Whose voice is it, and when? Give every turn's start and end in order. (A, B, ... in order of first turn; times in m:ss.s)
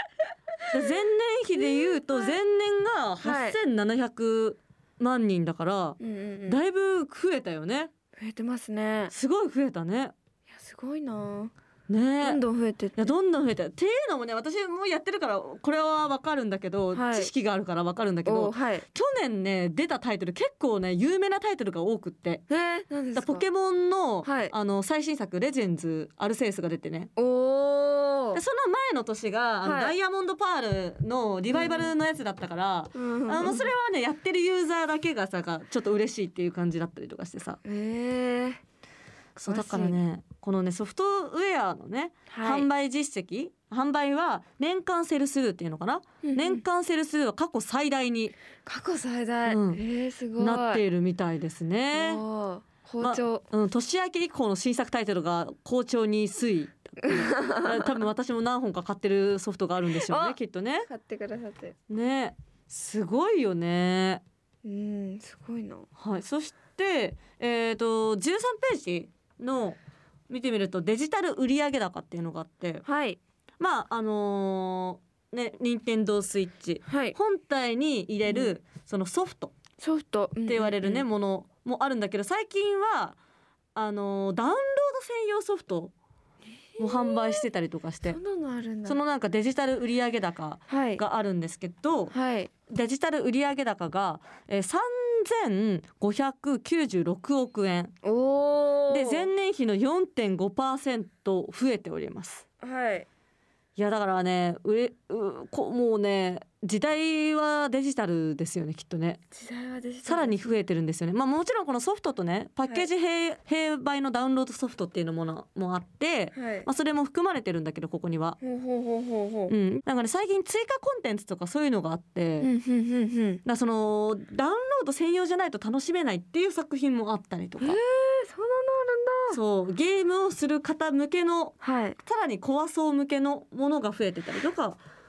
0:00.7-0:07.9 A
0:01.5-0:02.4 B
0:03.2-0:03.6 B
0:06.0-0:06.6 B
0:08.2-0:09.1 B
0:09.1-0:10.1 A
0:10.5-0:11.5 B
0:11.9-0:12.4 A
0:12.2-0:13.1 B
0:13.0-0:22.4 A
0:16.9-0:17.3 B
0:18.2-0:18.8 B
0:22.5-0:23.4 B
0:23.1-0:27.1 A
0:24.2-0:24.5 B
0:27.2-0:28.4 B
0:28.3-0:37.6 A
0:29.6-0:29.9 B
0:31.5-0:31.9 B
0:32.9-0:33.7 B
0:37.6-0:38.6 B
0:39.4-0:48.4 A
0:39.4-0:40.0 B
0:42.3-0:42.7 B
0:46.2-0:46.6 B
0:48.6-0:50.8 B
0:49.4-0:49.8 A
0:50.4-0:52.2 A
0:51.9-0:53.4 B
0:53.0-1:00.9 A
0:57.0-0:57.8 B
1:00.0-1:00.4 B
1:00.9-1:01.7 B
1:01.9-1:04.2 A
1:04.6-1:05.9 B
1:06.0-1:09.8 A
1:10.3-1:12.8 A
1:12.8-1:13.2 B
1:13.6-1:19.5 A
1:16.9-1:17.2 B
1:18.2-1:18.5 B
1:19.8-1:21.1 B
1:20.4-1:23.2 A
1:23.7-1:25.9 A
1:26.8-1:27.5 B
1:26.8-1:28.2 A
1:28.0-1:29.0 B
1:28.8-1:32.1 A
1:30.7-1:31.0 B
1:32.1-1:32.5 B
1:32.7-1:37.9 A
1:38.0-1:39.3 B
1:38.9-1:42.4 A
1:42.6-1:43.1 B
1:43.8-1:49.2 A
1:49.3-1:50.5 B
1:50.0-1:58.4 A
1:56.3-1:56.7 B
1:58.4-1:59.5 B
1:59.5-2:02.5 A
2:02.4-2:03.4 B
2:03.4-2:07.8 A
2:07.6-2:09.4 B
2:09.3-2:14.8 A
2:11.6-2:12.0 B